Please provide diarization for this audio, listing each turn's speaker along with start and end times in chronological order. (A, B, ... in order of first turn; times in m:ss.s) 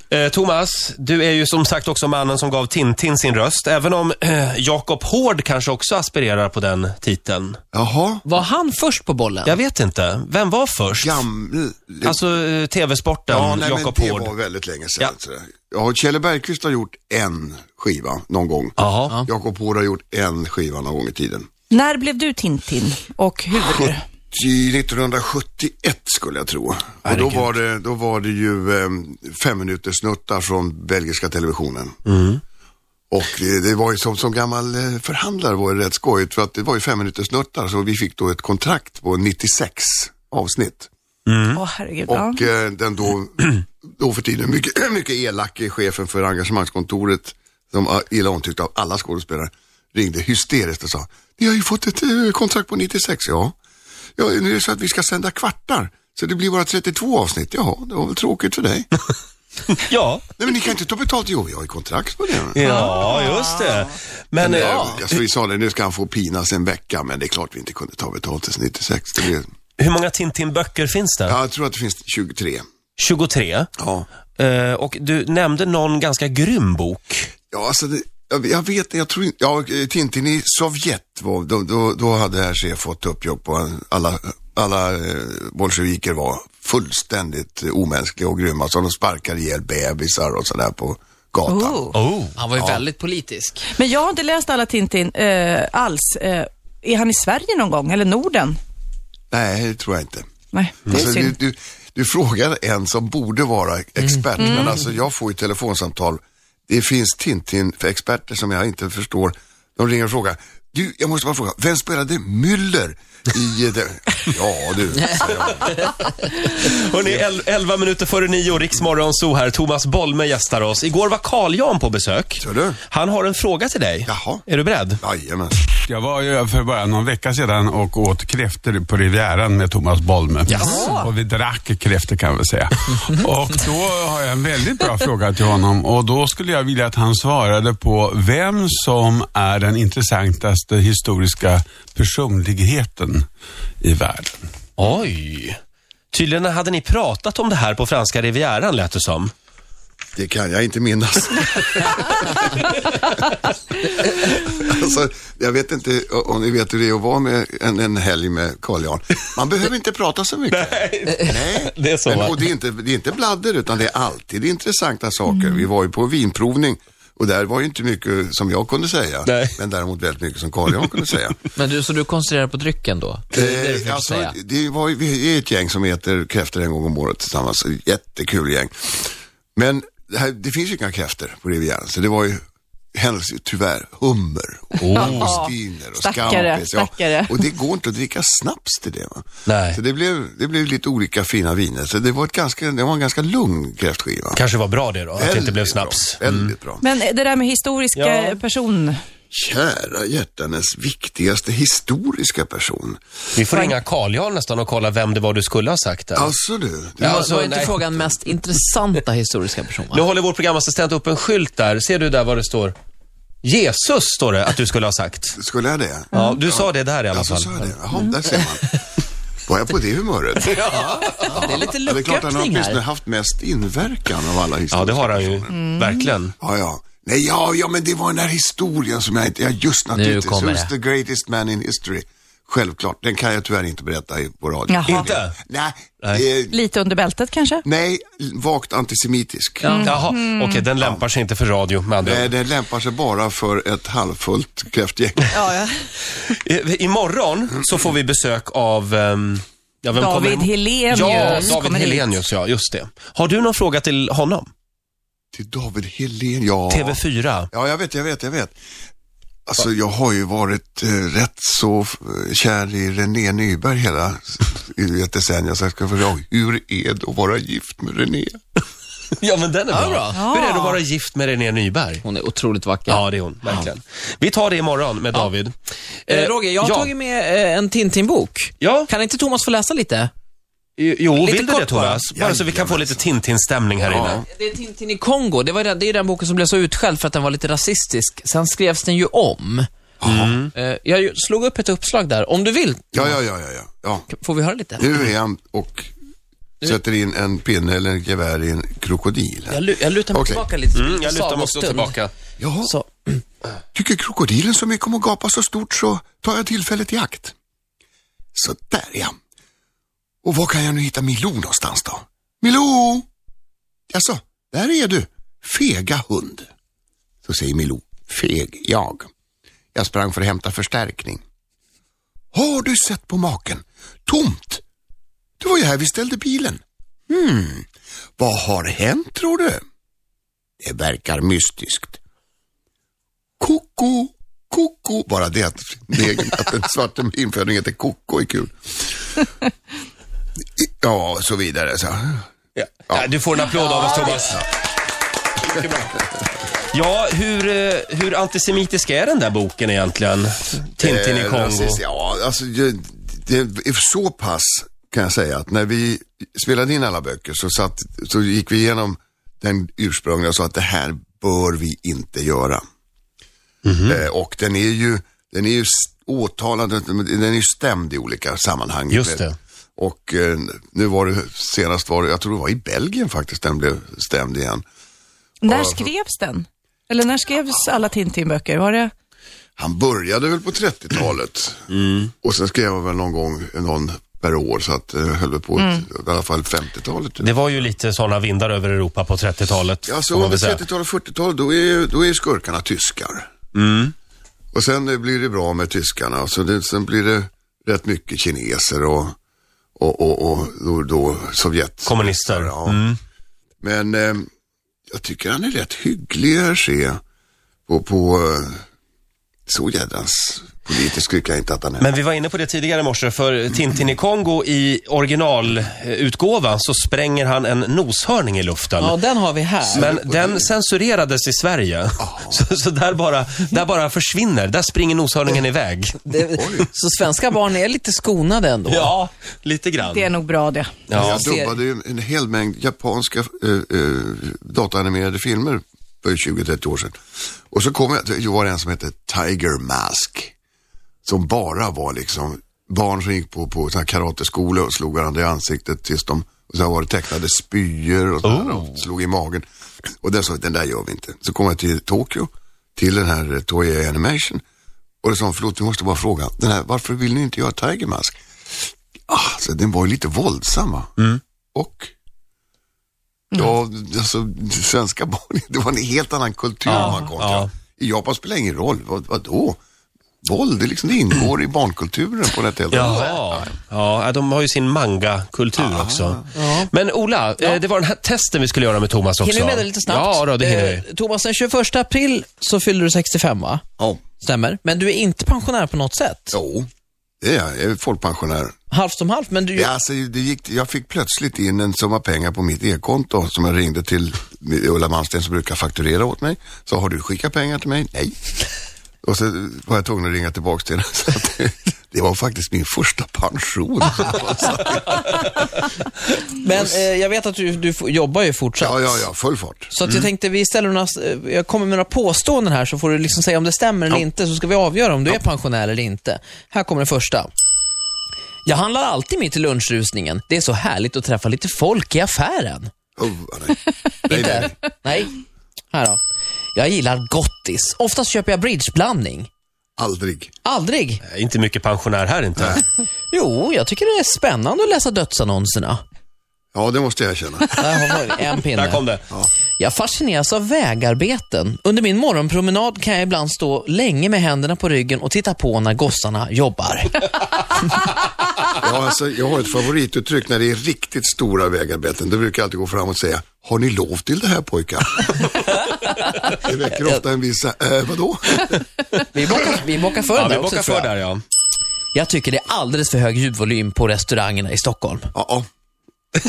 0:00.1-0:07.6 A
0:07.7-0:08.2 B
0:08.2-0:09.6 C
0:09.4-0:11.2 A
0:11.0-0:12.2 B
0:12.0-0:14.3 A
0:13.3-0:21.5 B
0:18.8-0:19.2 A
0:21.7-0:24.0 D
0:23.6-0:32.0 B
0:27.0-0:27.5 A
0:32.0-0:32.4 A
0:33.1-0:40.9 B
0:41.3-0:41.6 A
0:41.5-0:42.4 D
0:42.1-0:53.5 B
0:54.2-0:58.9 B
0:59.7-1:00.3 A
1:00.4-1:02.6 B
1:02.5-1:05.2 A
1:02.6-1:03.9 D
1:04.4-1:09.5 B
1:04.5-1:04.9 C
1:09.8-1:11.4 A
1:11.2-1:12.6 B
1:13.0-1:13.7 A
1:13.8-1:14.1 B
1:14.4-1:17.3 A
1:17.5-1:31.9 B
1:31.5-1:32.0 D
1:31.9-1:32.3 A
1:32.4-1:33.7 C
1:32.6-1:32.8 B
1:33.7-1:38.6 D
1:39.3-1:40.3 B
1:40.5-1:41.3 D
1:40.9-1:55.7 B
1:44.4-1:44.8 D
1:55.5-1:55.9 A
1:56.4-2:05.0 A
2:02.4-2:02.8 B
2:04.0-2:04.4 B
2:05.0-2:05.6 B
2:05.8-2:23.3 E
2:10.5-2:11.1 D
2:23.8-2:24.4 E
2:24.8-2:25.6 A
2:26.1-2:29.3 A
2:30.2-2:32.4 B
2:34.2-2:51.4 B
2:40.5-2:42.4 A
2:49.2-2:49.5 A
2:51.6-2:54.4 C
2:53.3-3:02.4 B
3:02.9-3:14.4 B
3:04.8-3:05.4 A
3:04.8-3:07.4 D
3:09.4-3:09.8 A
3:14.3-3:16.5 A
3:15.2-3:16.8 B
3:16.8-3:19.0 D
3:17.9-3:18.4 A
3:19.3-3:23.0 B
3:23.3-3:26.3 A
3:23.5-3:23.8 D
3:26.1-3:27.9 B
3:27.0-3:27.8 A
3:27.0-3:30.0 C
3:29.9-3:32.7 A
3:33.4-3:35.4 A
3:35.3-3:38.8 B
3:36.1-3:37.7 A
3:39.5-3:40.6 B
3:40.4-3:41.6 A
3:41.2-3:42.8 C
3:41.6-3:45.6 B
3:44.7-3:46.3 A
3:45.5-3:46.0 D
3:46.4-3:56.6 B
3:49.9-3:50.7 C
3:54.7-3:55.1 D
3:54.9-3:55.4 A
3:56.5-3:57.6 D
3:57.6-3:59.9 B
3:59.6-4:00.0 C
3:59.6-4:00.6 D
3:59.8-4:02.3 A
4:02.0-4:05.4 B
4:05.3-4:05.8 D
4:06.2-4:14.5 A
4:09.9-4:12.1 D
4:11.2-4:11.5 C
4:15.3-4:17.0 B
4:16.7-4:17.5 A
4:17.5-4:18.5 B
4:19.5-4:28.4 B
4:29.2-4:32.0 A
4:29.7-4:30.8 C
4:30.1-4:30.6 D
4:32.0-4:33.0 C
4:32.9-4:35.5 A
4:36.0-4:36.9 A
4:36.1-4:40.1 C
4:38.6-4:38.9 A
4:40.8-4:44.2 A
4:41.1-4:42.0 C
4:42.1-4:43.1 B
4:43.8-4:44.2 B
4:44.3-4:49.7 C
4:50.0-4:50.4 B
4:50.0-4:50.5 A
4:50.5-4:53.2 C
4:52.9-4:54.1 B
4:54.1-4:54.9 C
4:54.8-4:55.9 B
4:56.6-5:00.4 B
4:59.5-5:02.0 C
5:00.7-5:02.1 A
5:02.4-5:02.7 B
5:02.6-5:03.2 C
5:03.7-5:07.3 B
5:08.3-5:09.1 B
5:10.2-5:13.0 B
5:13.9-5:16.5 B
5:17.2-5:19.1 B
5:19.7-5:21.2 B
5:22.3-5:24.6 B
5:25.4-5:29.6 B
5:30.6-5:32.0 B
5:33.4-5:38.5 B
5:40.6-5:42.2 B
5:42.6-5:44.4 A
5:45.4-5:46.0 A
5:46.7-5:51.8 A
5:50.8-6:02.6 B
6:03.6-6:04.0 A
6:03.8-6:09.2 B
6:08.9-6:09.3 A
6:09.8-6:14.6 B
6:15.4-6:18.9 D
6:15.4-6:15.9 B
6:19.6-6:21.6 B
6:21.7-6:22.1 A
6:22.2-6:27.3 B
6:25.6-6:25.8 D
6:27.2-6:30.6 A
6:29.8-6:33.3 B
6:33.5-6:33.9 A
6:34.5-6:39.1 B
6:39.8-6:42.8 B
6:41.8-6:43.0 A
6:43.6-6:44.2 B
6:44.9-6:47.0 B
6:47.7-6:48.6 B
6:49.5-6:51.9 B
6:51.8-6:58.9 A
6:58.8-6:59.9 C
6:59.6-7:00.5 B
6:59.7-7:06.0 A
7:02.0-7:02.4 B
7:06.0-7:09.0 C
7:06.4-7:06.7 B
7:08.7-7:10.1 A
7:09.8-7:10.7 D
7:10.9-7:11.2 A
7:11.0-7:11.6 C
7:11.0-7:16.9 B
7:17.5-7:20.3 B
7:21.0-7:29.4 B
7:28.2-7:28.8 A
7:30.0-7:34.4 B
7:35.0-7:38.2 B
7:39.1-7:40.9 B
7:41.5-7:41.9 B
7:43.3-7:49.6 B
7:46.6-7:47.5 A
7:46.7-7:47.0 C
7:50.2-7:53.4 B
7:52.7-8:00.8 A
7:55.6-7:56.3 B
7:56.3-7:56.7 C
7:59.2-8:03.6 C
8:04.2-8:06.4 C
8:06.3-8:06.7 B
8:07.2-8:08.5 B
8:08.7-8:09.7 C
8:09.5-8:18.2 B
8:19.0-8:25.1 B
8:26.3-8:29.0 C
8:28.6-8:29.7 B
8:29.7-8:37.3 C
8:38.4-8:42.7 C
8:43.0-8:44.5 B
8:44.1-8:45.2 C
8:45.7-8:46.0 C
8:46.5-8:49.3 C
8:49.8-8:50.3 B
8:50.4-8:51.0 C
8:51.1-8:52.6 A
8:52.4-8:52.6 B
8:53.1-8:55.8 C
8:56.5-8:57.9 B
8:57.6-8:58.8 C
8:58.5-8:59.0 A
8:59.6-9:07.0 C
9:08.6-9:15.1 B
9:16.3-9:18.6 B
9:16.7-9:17.0 C
9:19.1-9:20.9 C
9:20.1-9:21.2 A
9:21.9-9:25.1 C
9:25.1-9:25.4 B